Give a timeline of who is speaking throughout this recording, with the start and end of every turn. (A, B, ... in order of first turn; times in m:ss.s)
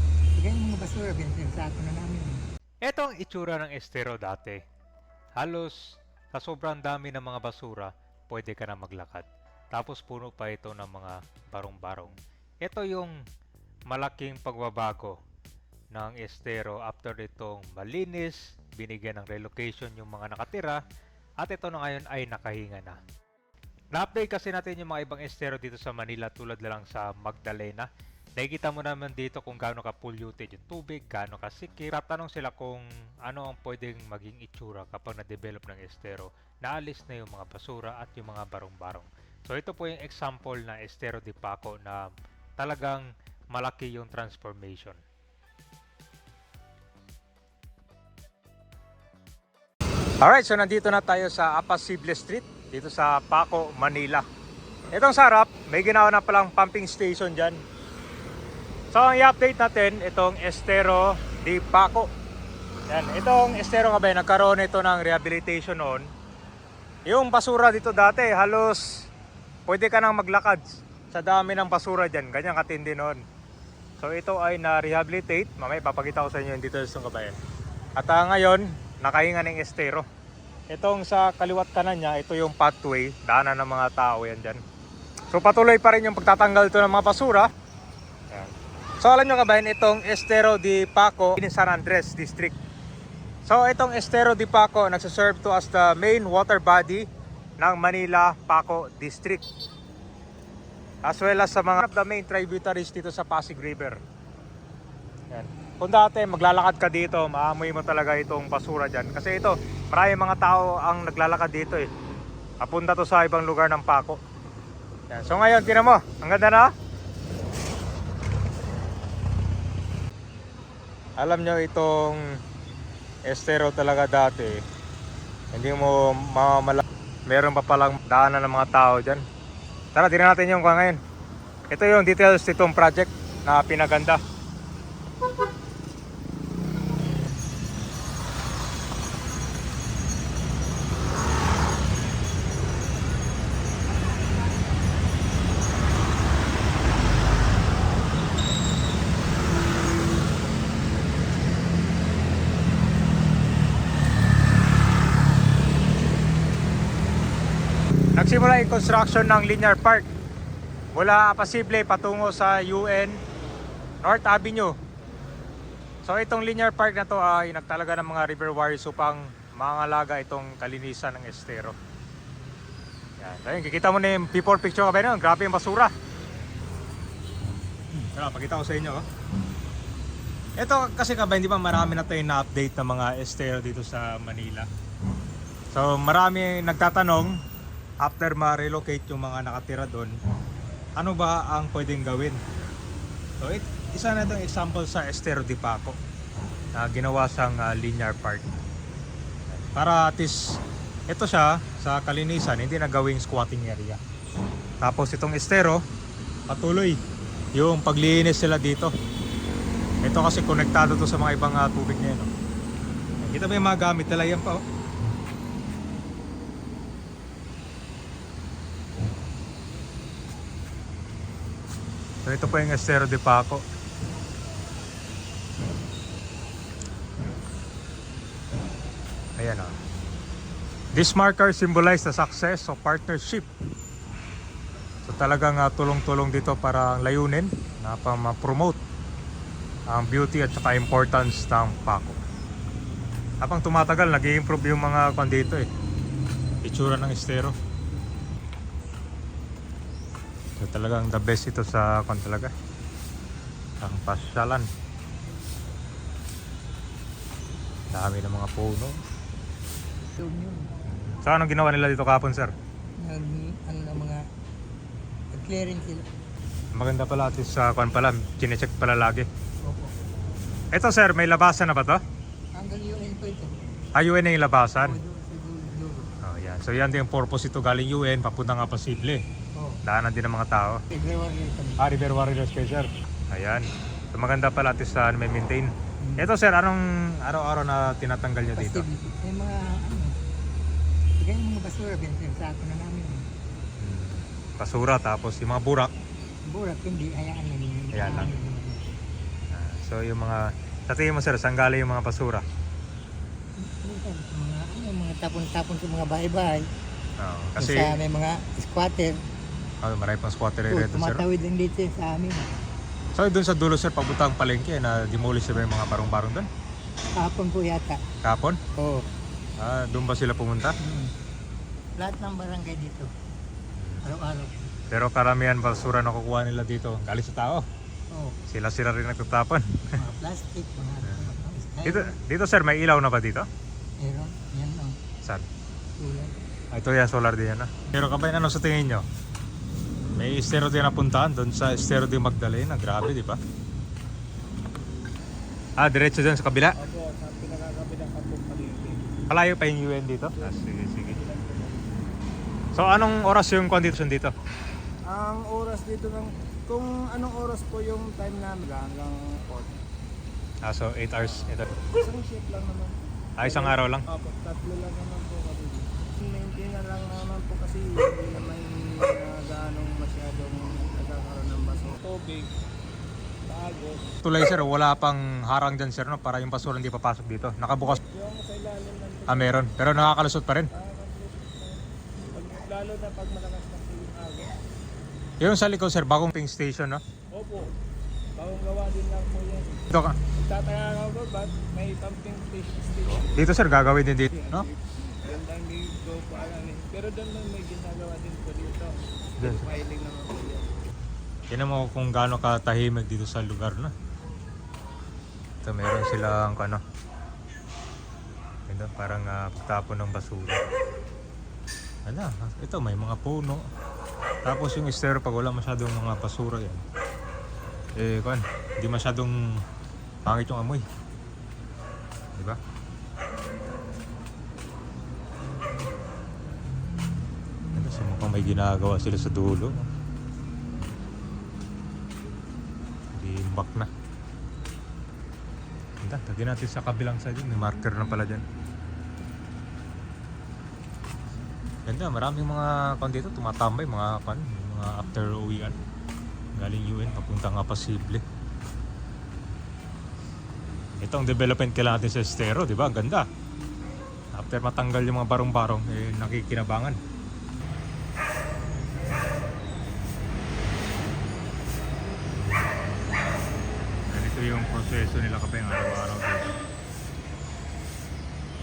0:00.4-0:02.4 A
0:02.8-0:04.6 B
0:05.4-0:05.8 B
0:06.3-0:13.2 B
0:13.9-0:15.2 B
0:16.0-0:20.8 B
0:21.4-0:23.0 B
0:23.9-0:45.0 B
0:50.2-0:54.2 B
0:54.9-0:57.6 B
0:58.9-1:02.1 B
1:02.9-1:06.1 B
1:07.1-1:08.8 B
1:09.7-1:13.2 B
1:14.0-1:17.4 B
1:18.0-1:20.0 B
1:20.7-1:24.6 B
1:25.3-1:27.5 B
1:28.3-1:32.6 B
1:33.5-1:37.1 B
1:37.6-1:39.4 B
1:41.1-1:44.0 B
1:45.3-1:51.9 B
1:52.6-1:54.2 B
1:55.1-1:56.7 B
2:01.2-2:02.2 B
2:03.3-2:04.6 B
2:05.5-2:09.2 B
2:10.0-2:11.0 B
2:11.7-2:14.2 B
2:38.2-2:40.1 B
2:40.9-2:43.2 B
2:44.0-2:44.7 B
2:46.0-2:51.8 B
2:53.2-2:55.9 B
2:57.9-2:59.0 B
3:00.6-3:04.7 B
3:05.7-3:07.4 B
3:08.0-3:10.2 B
3:11.0-3:12.4 B
3:13.4-3:16.0 B
3:16.8-3:18.4 B
3:19.5-3:20.4 B
3:21.1-3:24.0 B
3:24.8-3:25.8 B
3:26.5-3:27.0 B
3:27.6-3:28.9 B
3:30.0-3:32.3 B
3:33.2-3:34.6 B
3:42.2-3:43.6 B
3:49.4-3:49.7 B
3:50.9-3:53.5 B
3:55.0-3:58.8 B
3:59.9-4:02.2 B
4:03.4-4:05.7 B
4:06.6-4:07.6 B
4:10.6-4:12.5 B
4:13.8-4:14.7 B
4:17.9-4:19.0 B
4:20.2-4:20.7 A
4:21.0-4:22.5 B
4:23.0-4:24.2 A
4:25.3-4:26.0 A
4:26.7-4:29.3 B
4:29.6-4:29.9 A
4:30.7-4:32.0 B
4:32.6-4:33.6 A
4:34.0-4:35.0 B
4:34.8-4:36.1 A
4:36.2-4:39.2 B
4:39.8-4:40.8 B
4:40.9-4:41.9 A
4:41.8-4:48.9 B
4:46.0-4:46.3 A
4:48.6-4:50.2 A
4:51.2-4:53.2 A
4:53.8-4:55.9 B
4:56.5-4:58.8 A
4:58.0-4:58.4 B
4:59.5-5:02.4 B
5:03.6-5:06.7 A
5:07.2-5:08.0 B
5:07.6-5:09.2 A
5:09.8-5:11.2 B
5:10.7-5:12.5 A
5:13.2-5:16.5 B
5:17.2-5:18.0 A
5:18.2-5:18.6 B
5:18.8-5:19.0 A
5:19.6-5:20.7 B
5:20.8-5:21.1 A
5:22.0-5:23.1 A
5:23.8-5:24.0 B
5:24.0-5:24.6 A
5:24.9-5:27.6 B
5:28.5-5:30.0 B
5:30.0-5:32.1 A
5:31.1-5:31.3 B
5:31.8-5:33.5 B
5:34.0-5:35.0 A
5:36.0-5:36.3 A
5:36.7-5:39.0 B
5:40.2-5:43.4 B
5:45.8-5:46.8 B
5:46.8-5:49.1 C
5:49.3-5:51.2 B
5:50.4-5:51.8 C
5:52.8-5:54.3 B
5:55.0-5:59.8 C
6:00.6-6:01.8 B
6:01.2-6:12.5 C
6:03.4-6:04.0 B
6:13.5-6:14.1 C
6:14.2-6:18.0 B
6:17.8-6:19.7 C
6:19.3-6:20.7 B
6:20.7-6:24.5 C
6:25.4-6:27.0 B
6:27.3-6:27.7 C
6:28.4-6:29.8 C
6:29.9-6:30.2 B
6:30.4-6:40.7 C
6:33.4-6:34.7 B
6:39.4-6:39.7 B
6:41.5-6:43.9 B
6:45.6-6:46.8 B
6:48.7-6:50.7 B
6:52.1-6:53.6 B
6:54.4-6:56.8 B
6:58.0-6:59.4 B
7:00.3-7:00.8 B
7:07.8-7:09.9 B
7:13.2-7:13.9 B
7:16.0-7:18.4 B
7:21.9-7:25.8 B
7:26.6-7:28.2 B
7:31.0-7:33.3 B
7:34.4-7:37.0 B
7:44.1-7:46.6 B